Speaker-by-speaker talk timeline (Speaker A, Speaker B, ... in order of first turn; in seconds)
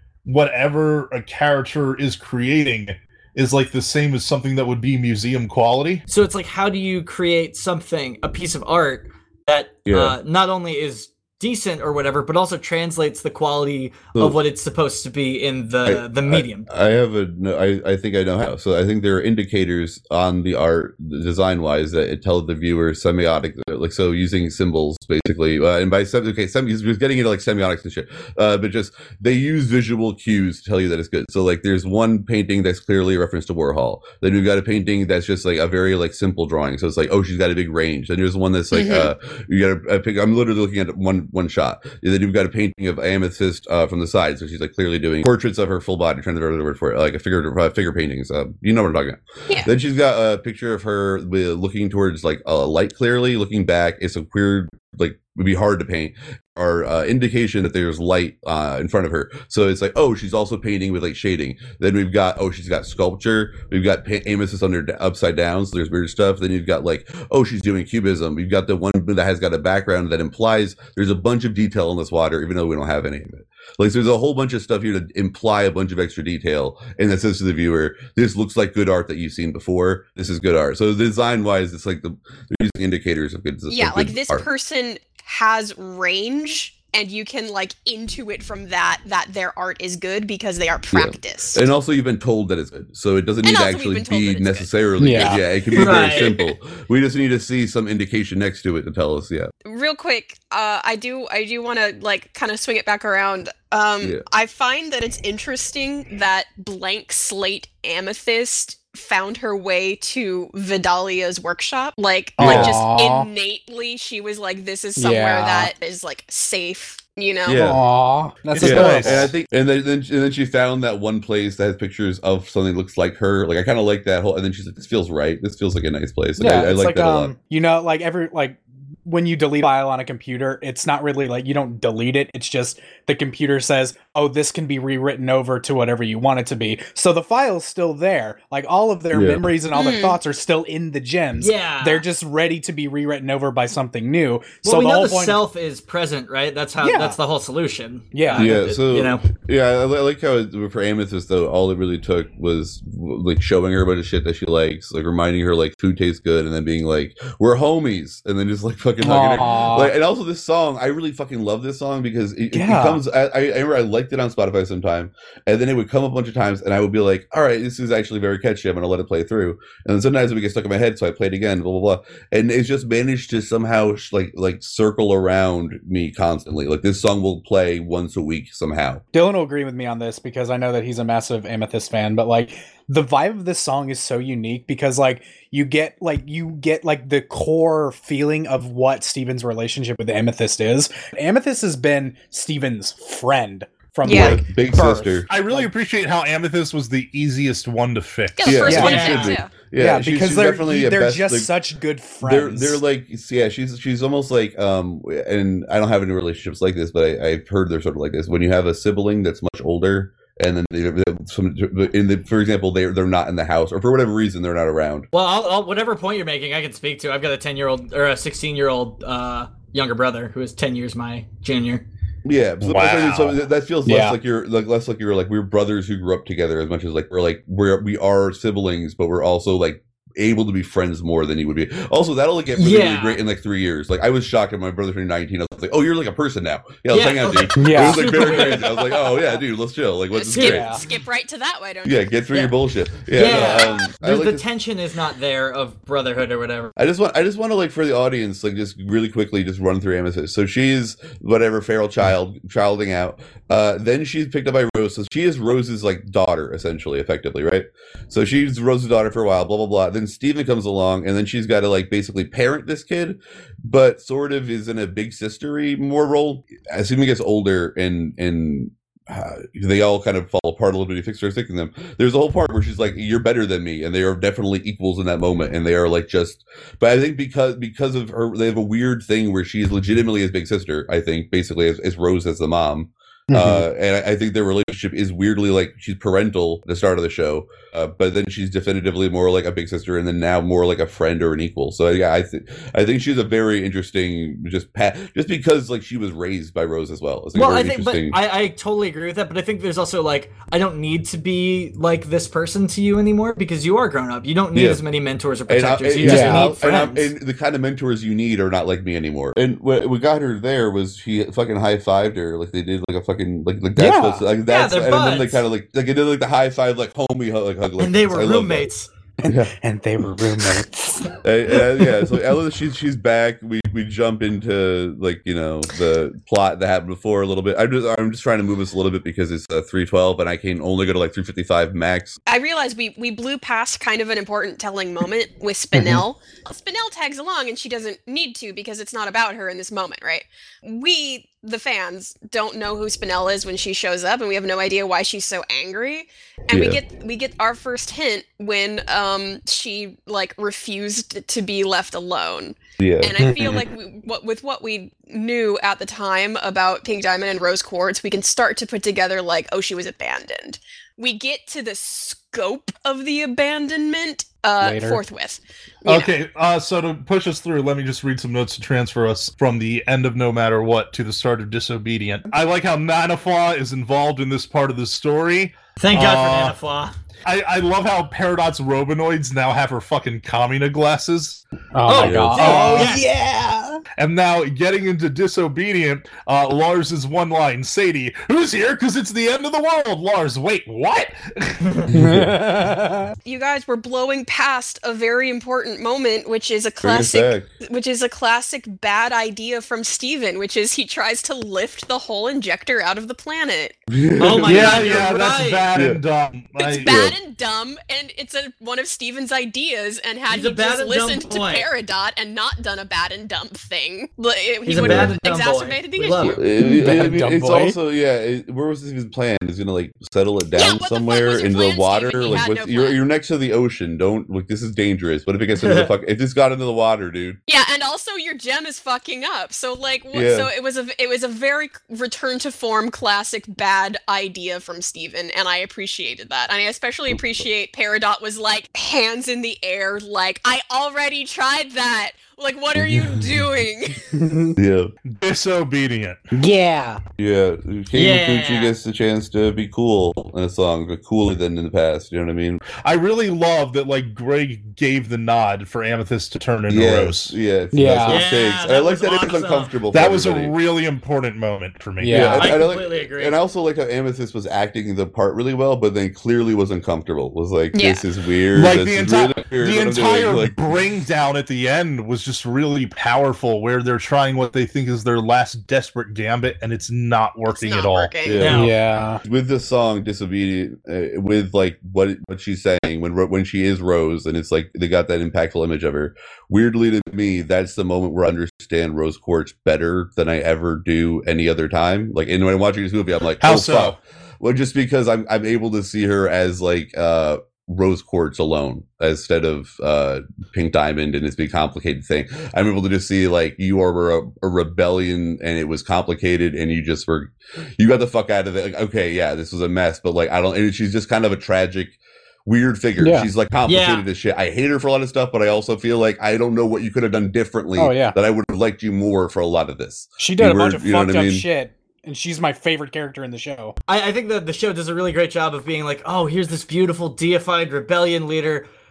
Speaker A: 0.2-6.0, 112.4-112.7, 118.5-119.3, 195.3-198.7, 222.6-223.4, 365.9-376.6, 377.2-381.4, 384.0-391.8, 404.4-406.9, 445.1-446.2, 452.8-457.3, 459.9-462.4, 468.5-478.1, 493.4-494.0
Speaker B: 6.1-16.7, 95.8-96.4, 141.4-142.0, 144.6-149.2, 198.7-199.4, 215.1-221.8, 232.6-233.2, 236.9-239.3, 240.3-240.7, 243.1-246.7, 297.4-307.1, 314.5-315.4, 317.8-318.9, 375.8-376.9, 381.9-383.1, 404.2-405.7, 410.3-411.7, 414.6-416.4, 425.6-425.9, 447.9-448.7, 458.1-459.8, 462.3-463.4, 478.4-478.7, 513.7-514.0, 523.9-528.6
Speaker C: 9.9-10.2, 15.9-84.5, 90.9-99.5, 112.4-112.8, 117.5-117.8, 118.6-127.3, 139.1-139.5, 148.3-179.0, 194.1-195.3, 198.4-201.5, 202.2-215.1, 222.2-240.8, 241.8-244.4, 246.8-298.2, 304.5-304.8, 305.5-318.7, 319.3-319.5, 321.2-332.2, 346.5-346.8, 352.8-353.7, 382.0-382.9, 391.9-392.7, 396.8-397.5, 403.9-405.1, 405.8-406.0, 406.8-407.2, 414.8-415.1, 416.2-427.4, 430.1-430.5, 442.8-443.4, 444.6-444.9, 447.2-452.6, 456.7-460.5, 462.1-470.6, 478.2-478.7, 479.2-521.5
Speaker D: 38.7-39.1, 83.7-91.6, 93.4-95.4, 95.9-96.4, 99.7-117.6, 139.7-140.2, 194.1-194.4, 198.4-199.5, 240.1-242.1, 243.3-243.9, 332.3-366.1, 382.5-382.9, 393.2-403.8, 406.6-416.5, 420.6-423.0, 427.5-444.0, 467.7-468.0, 477.5-478.5
Speaker E: 95.0-95.4, 112.4-113.3, 115.0-115.7, 117.6-119.3, 126.4-145.4, 146.8-147.2, 148.1-148.5, 159.0-159.9, 162.5-163.0, 179.1-195.7, 198.6-199.1, 199.8-202.8, 223.9-224.2, 237.6-238.6, 240.4-240.8, 283.3-283.7, 306.0-306.6, 313.8-314.2, 319.2-322.1, 335.7-336.1, 353.2-353.5, 364.6-365.0, 381.7-383.8, 391.9-393.1, 416.6-417.8, 444.1-444.6, 446.3-447.0, 457.7-458.2, 462.0-462.5, 478.5-479.2, 513.0-513.3, 517.8-518.2, 520.2-523.8